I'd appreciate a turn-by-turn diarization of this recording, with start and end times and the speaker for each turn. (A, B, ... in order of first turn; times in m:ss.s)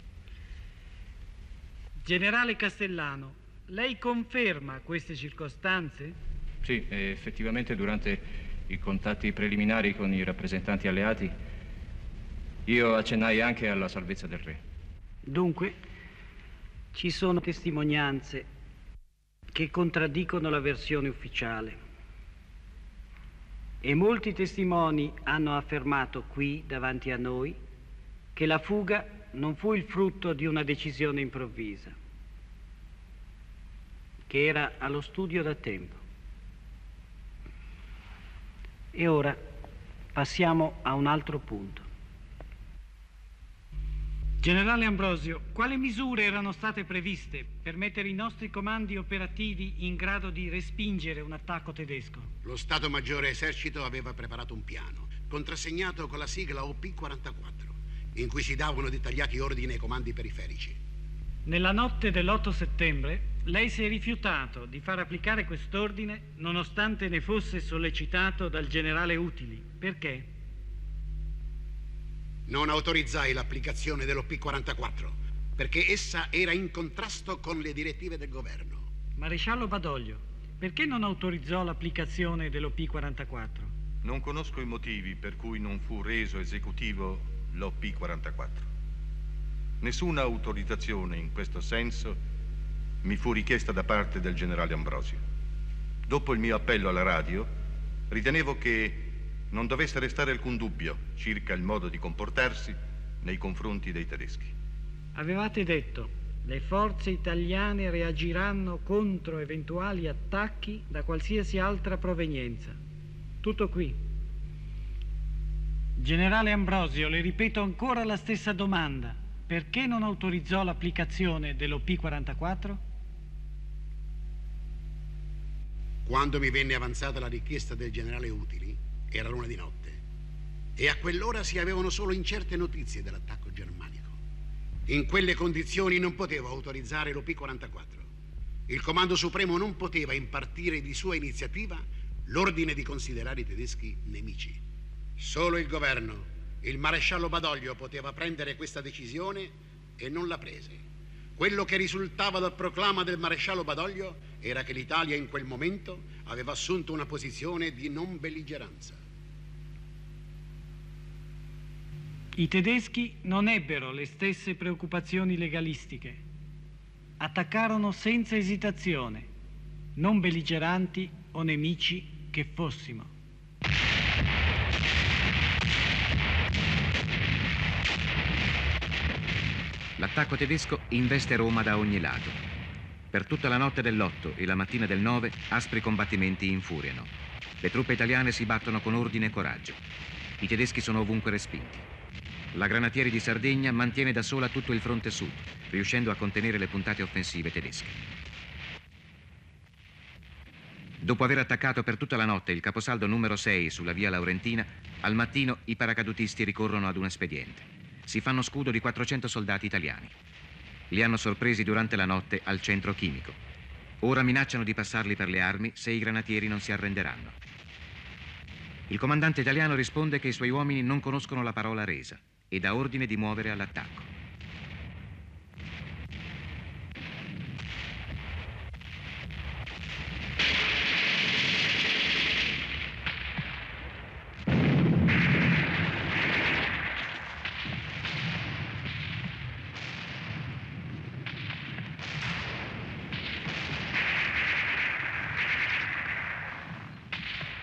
0:02.0-0:06.2 A
0:06.6-0:11.4 B
0:12.6-0:14.6 B
0:15.2-0:15.8 A
0:16.9-0:18.5 A
0:19.5-0:21.8 A
0:23.8-0:27.6 A
0:28.3-0:32.0 A
0:34.3-0:36.0 A
0:38.9-0:39.4 A
0:40.1-0:41.8 A
0:44.4-0:52.3 A
0:52.4-1:00.8 C
1:01.4-1:10.3 A
1:12.5-1:18.8 C
1:19.2-1:23.7 A
1:24.0-1:28.7 D
1:29.8-1:32.2 D
1:33.0-1:35.2 D
1:36.1-1:37.5 D
1:38.1-1:44.5 D
1:45.1-1:52.8 A
1:53.4-1:54.0 A
1:56.0-2:02.8 A
2:06.0-2:10.0 C
2:10.8-2:14.2 C
2:14.9-2:18.1 C
2:18.7-2:24.6 C
2:25.2-2:30.8 C
2:31.4-2:39.0 C
2:42.3-2:46.2 A
2:47.2-2:49.3 A
2:50.0-2:53.1 A
3:00.0-3:02.4 E
3:03.1-3:07.1 E
3:07.6-3:09.8 E
3:10.4-3:11.8 E
3:12.5-3:18.0 E
3:21.0-3:30.1 E
3:30.9-3:33.4 E
3:34.0-3:37.3 E
3:38.9-3:44.1 E